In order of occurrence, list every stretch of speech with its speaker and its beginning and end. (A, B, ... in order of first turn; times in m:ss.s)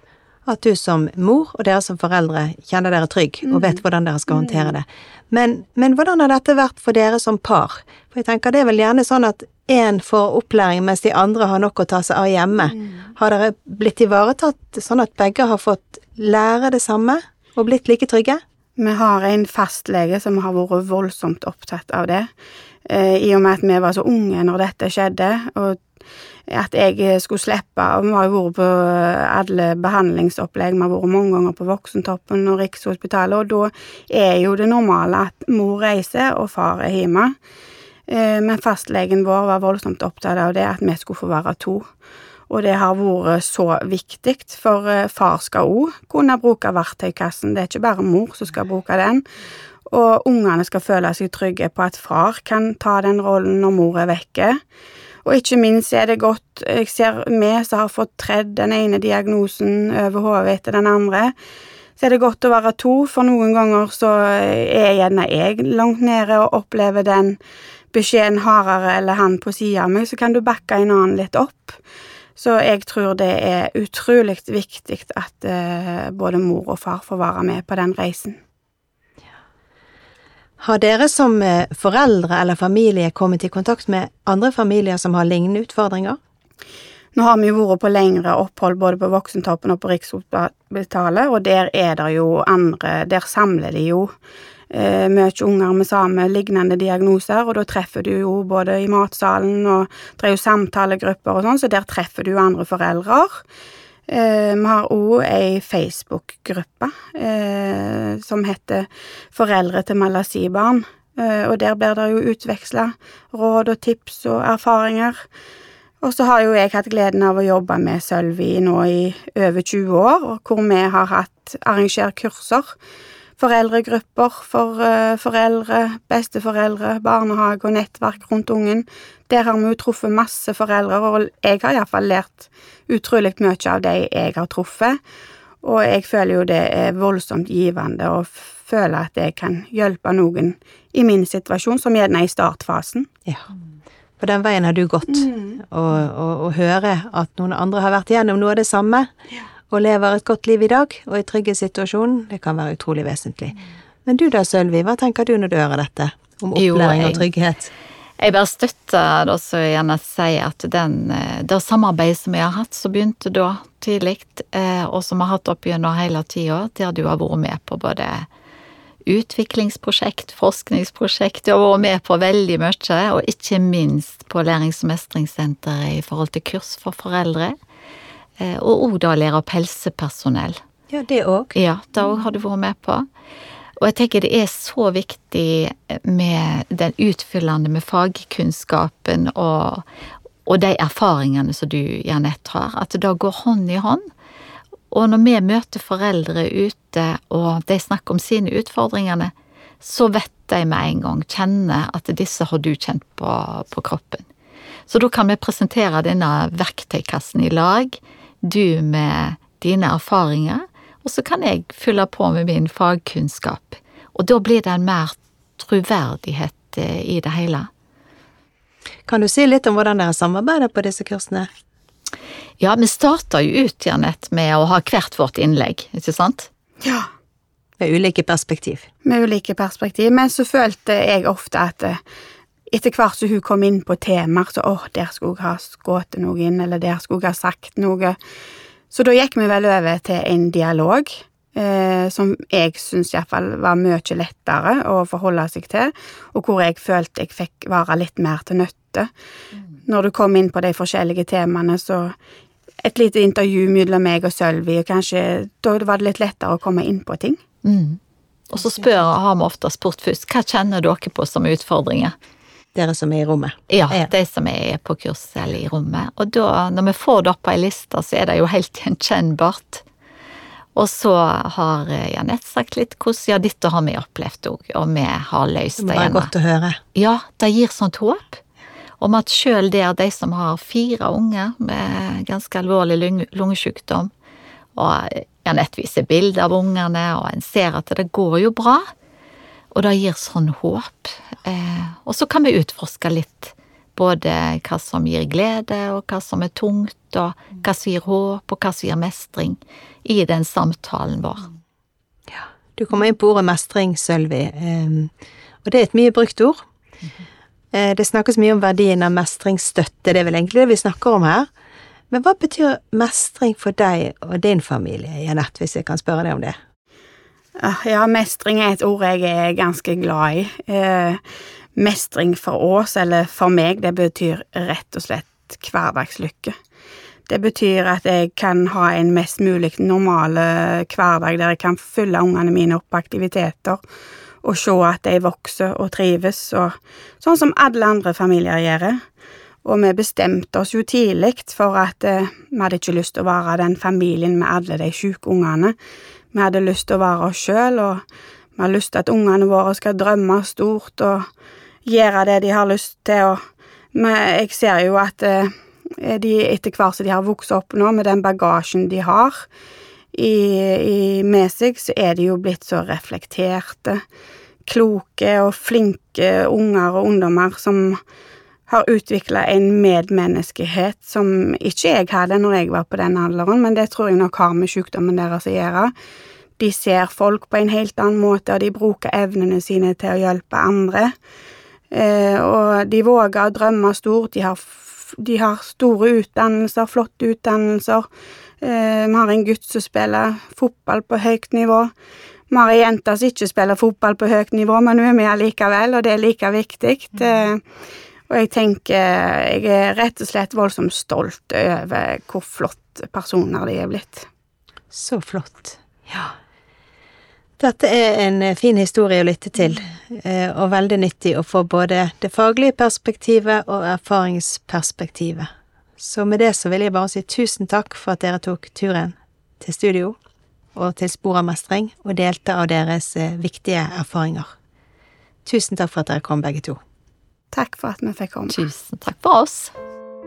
0:00.5-0:18.4 A
0:03.5-0:04.8 B
0:18.8-0:22.3 B
0:22.9-0:25.8 B
0:26.5-0:37.3 B
0:38.1-0:41.9 B
0:42.5-0:49.2 B
0:49.9-0:54.6 B
0:55.2-1:01.3 B
1:02.0-1:07.4 B
1:07.9-1:11.8 B
1:12.4-1:18.4 B
1:20.6-1:26.2 A
1:27.2-1:34.1 B
1:34.7-1:43.4 B
1:44.1-1:55.2 B
1:56.0-2:02.8 B
2:03.4-2:15.0 B
2:15.6-2:23.1 B
2:24.2-2:29.1 A
2:25.1-2:25.6 B
2:29.7-2:37.7 A
2:36.6-2:37.3 C
2:38.2-2:48.3 C
2:49.1-2:57.5 C
2:58.4-3:00.6 C
3:00.9-3:01.5 A
3:01.6-3:03.0 C
3:03.8-3:09.8 C
3:10.5-3:14.0 C
3:14.9-3:24.3 C
3:24.9-3:37.7 C
3:39.1-3:41.5 A
3:42.6-3:46.5 C
3:47.8-3:48.9 A
3:49.0-3:52.0 B
3:52.7-3:58.2 B
3:58.9-4:09.1 B
4:09.9-4:12.1 B
4:12.8-4:17.4 B
4:17.6-4:18.0 C
4:18.5-4:22.1 C
4:22.7-4:24.1 A
4:23.7-4:29.8 C
4:30.8-4:36.3 C
4:35.8-4:36.8 A
4:37.0-4:38.4 C
4:39.0-4:44.1 C
4:44.8-4:48.8 C
4:49.7-5:01.5 C
5:02.3-5:05.1 A
5:05.6-5:06.6 A
5:07.7-5:11.5 A
5:12.1-5:16.6 A
5:17.6-5:21.2 B
5:21.8-5:26.6 B
5:27.3-5:33.8 B
5:34.4-5:39.0 B
5:39.6-5:45.7 B
5:46.3-5:48.0 B
5:48.6-5:51.3 B
5:51.8-5:53.4 B
5:53.9-5:59.5 B
6:00.1-6:04.0 B
6:04.7-6:08.0 B
6:08.7-6:15.9 B
6:16.6-6:21.1 B
6:21.9-6:28.1 B
6:28.6-6:31.9 B
6:32.5-6:37.6 B
6:38.3-6:44.3 B
6:44.9-6:46.3 A
6:47.6-7:00.2 A
7:00.8-7:04.5 A
7:05.4-7:06.8 A
7:07.5-7:08.6 B
7:08.5-7:09.7 C